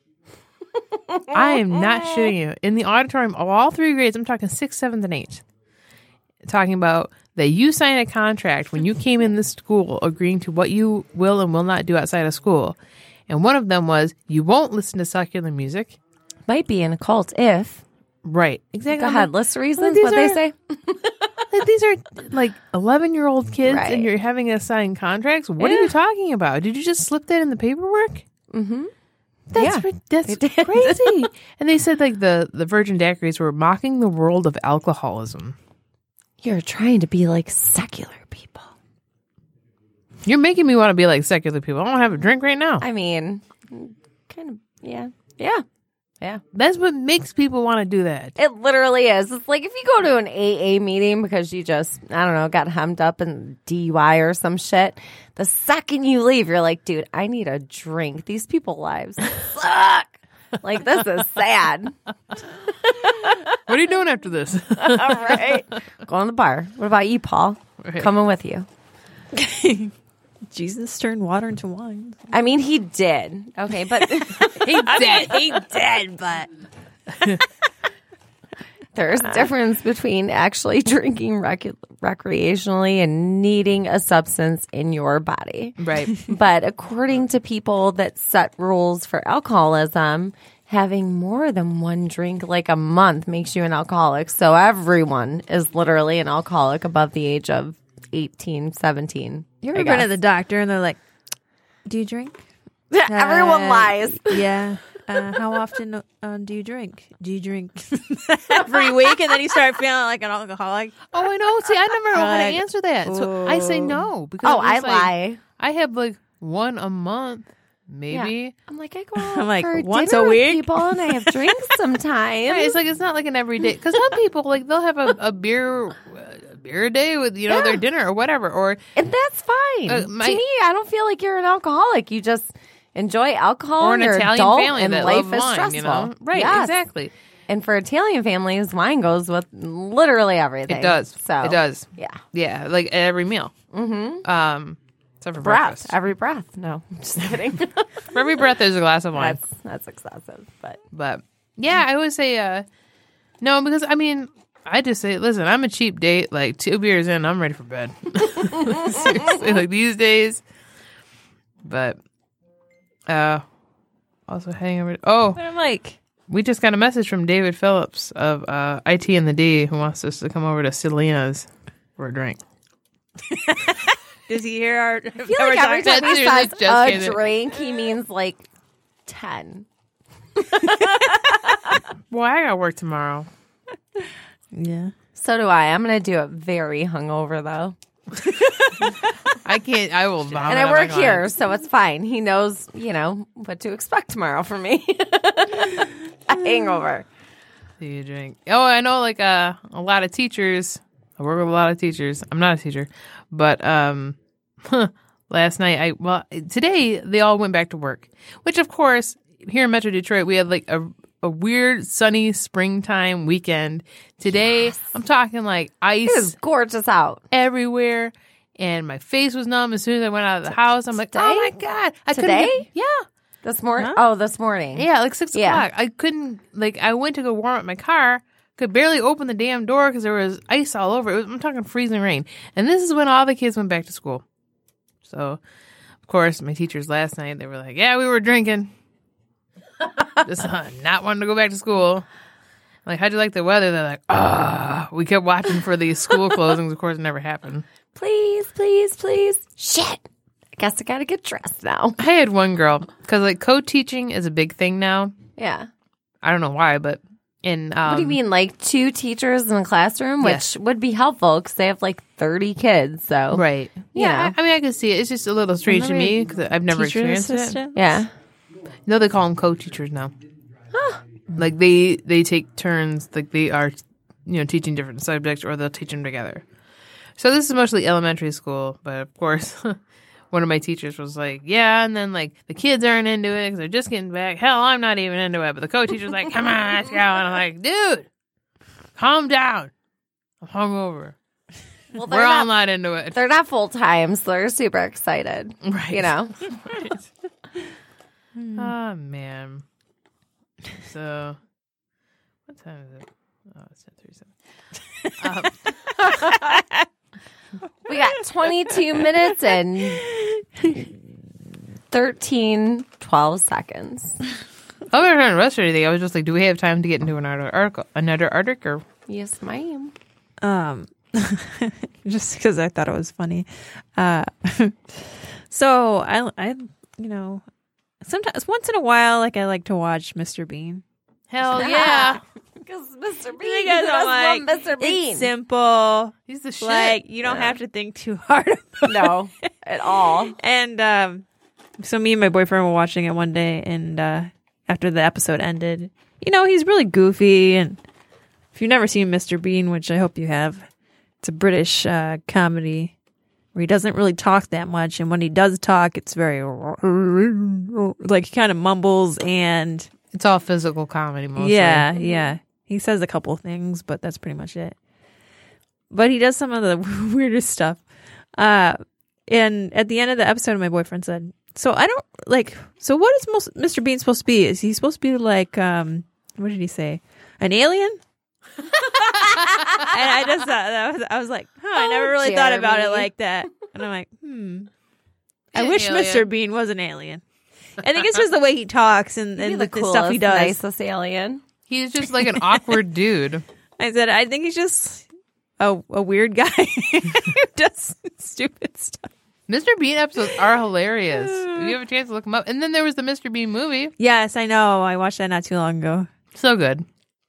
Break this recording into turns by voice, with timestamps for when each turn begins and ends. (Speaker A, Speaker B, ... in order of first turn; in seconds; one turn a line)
Speaker A: 1.1-2.2
Speaker B: 1.3-5.5
Speaker B: 6.4-12.8
Speaker B: 13.3-16.0
Speaker A: 16.5-17.8
Speaker B: 18.2-20.4
Speaker A: 18.9-21.1
Speaker B: 21.5-28.3
Speaker A: 23.7-24.1
Speaker A: 25.6-25.9
Speaker A: 28.5-28.9
Speaker B: 29.5-35.6
Speaker A: 29.5-31.3
Speaker A: 36.4-38.7
Speaker B: 40.3-42.8
Speaker A: 42.8-45.6
Speaker B: 46.5-48.3
Speaker A: 48.4-62.0
Speaker A: 62.9-63.5
Speaker B: 63.7-65.6
Speaker A: 64.8-68.7
Speaker B: 67.8-68.1
Speaker C: 69.3-69.9
Speaker C: 70.5-72.2
Speaker A: 72.3-74.7
Speaker C: 74.4-76.5
Speaker B: 74.5-75.4
Speaker B: 77.1-77.4
Speaker A: 78.9-100.1
Speaker B: 85.8-86.1
Speaker C: 99.6-101.0
Speaker C: 101.8-102.5
Speaker A: 102.9-104.4
Speaker C: 103.1-111.0
Speaker B: 111.1-118.5
Speaker C: 112.1-113.9
Speaker A: 114.4-115.4
Speaker A: 118.1-122.8
Speaker C: 119.2-121.5
Speaker B: 122.5-128.8
Speaker A: 127.5-127.8
Speaker A: 128.9-136.8
Speaker B: 129.9-130.4
Speaker B: 133.8-137.1
Speaker A: 137.5-142.2
Speaker B: 140.7-143.6
Speaker A: 143.7-144.2
Speaker B: 144.2-145.9
Speaker A: 145.4-148.0
Speaker B: 148.1-149.4
Speaker A: 149.2-150.8
Speaker B: 150.9-152.7
Speaker B: 153.4-160.4
Speaker B: 161.6-162.0
Speaker B: 163.1-163.4
Speaker B: 164.3-165.4
Speaker C: 165.3-166.0
Speaker B: 166.3-172.4
Speaker C: 173.3-176.3
Speaker B: 175.3-177.2
Speaker A: 175.4-178.4
Speaker A: 179.1-179.7
Speaker A: 180.3-181.8
Speaker B: 182.1-183.3
Speaker C: 184.5-184.9
Speaker A: 185.2-187.8
Speaker C: 188.4-188.8
Speaker B: 189.4-191.3
Speaker A: 190.4-197.1
Speaker B: 197.8-216.3
Speaker A: 214.4-214.9
Speaker A: 216.1-217.2
Speaker B: 217.3-223.1
Speaker A: 221.1-222.7
Speaker A: 223.4-225.7
Speaker B: 224.7-234.2
Speaker B: 235.0-235.4
Speaker B: 236.0-238.7
Speaker B: 240.2-242.1
Speaker B: 242.8-247.7
Speaker A: 247.9-250.1
Speaker A: 250.6-252.0
Speaker B: 252.0-255.2
Speaker A: 255.4-255.7
Speaker B: 256.2-258.2
Speaker A: 257.8-264.4
Speaker B: 260.2-260.5
Speaker B: 263.3-267.6
Speaker A: 265.7-266.2
Speaker C: 266.7-267.8
Speaker A: 267.7-268.1
Speaker B: 268.9-270.1
Speaker A: 270.7-271.0
Speaker B: 271.3-276.4
Speaker B: 277.2-279.8
Speaker B: 280.3-288.1
Speaker B: 288.9-289.7
Speaker B: 290.4-291.1
Speaker A: 291.9-292.5
Speaker B: 292.1-293.3
Speaker A: 293.1-296.5
Speaker B: 295.6-297.1
Speaker C: 298.4-298.7
Speaker B: 298.6-299.6
Speaker B: 300.8-301.4
Speaker B: 302.5-304.4
Speaker B: 305.2-305.7
Speaker C: 306.2-306.9
Speaker A: 307.9-310.0
Speaker C: 310.1-310.8
Speaker A: 311.9-314.2
Speaker B: 314.9-318.8
Speaker A: 319.1-319.9
Speaker C: 320.4-327.4
Speaker C: 328.0-330.8
Speaker B: 331.3-332.2
Speaker A: 331.5-335.3
Speaker C: 333.4-339.1
Speaker B: 336.3-337.0
Speaker A: 337.2-337.6
Speaker A: 338.9-340.4
Speaker C: 340.4-341.2
Speaker C: 341.8-347.8
Speaker C: 348.5-350.7
Speaker C: 351.2-352.9
Speaker C: 353.5-359.9
Speaker B: 360.1-361.9
Speaker C: 361.4-364.8
Speaker A: 362.0-362.3
Speaker C: 365.9-378.0
Speaker C: 379.0-384.7
Speaker B: 379.4-379.6
Speaker A: 381.8-383.1
Speaker C: 385.5-387.2
Speaker B: 385.5-386.3
Speaker C: 387.8-390.6
Speaker A: 389.4-391.4
Speaker B: 391.7-393.4
Speaker C: 393.8-395.1
Speaker C: 395.6-399.1
Speaker B: 399.5-403.9
Speaker C: 401.1-401.7
Speaker C: 404.0-406.1
Speaker B: 406.3-406.9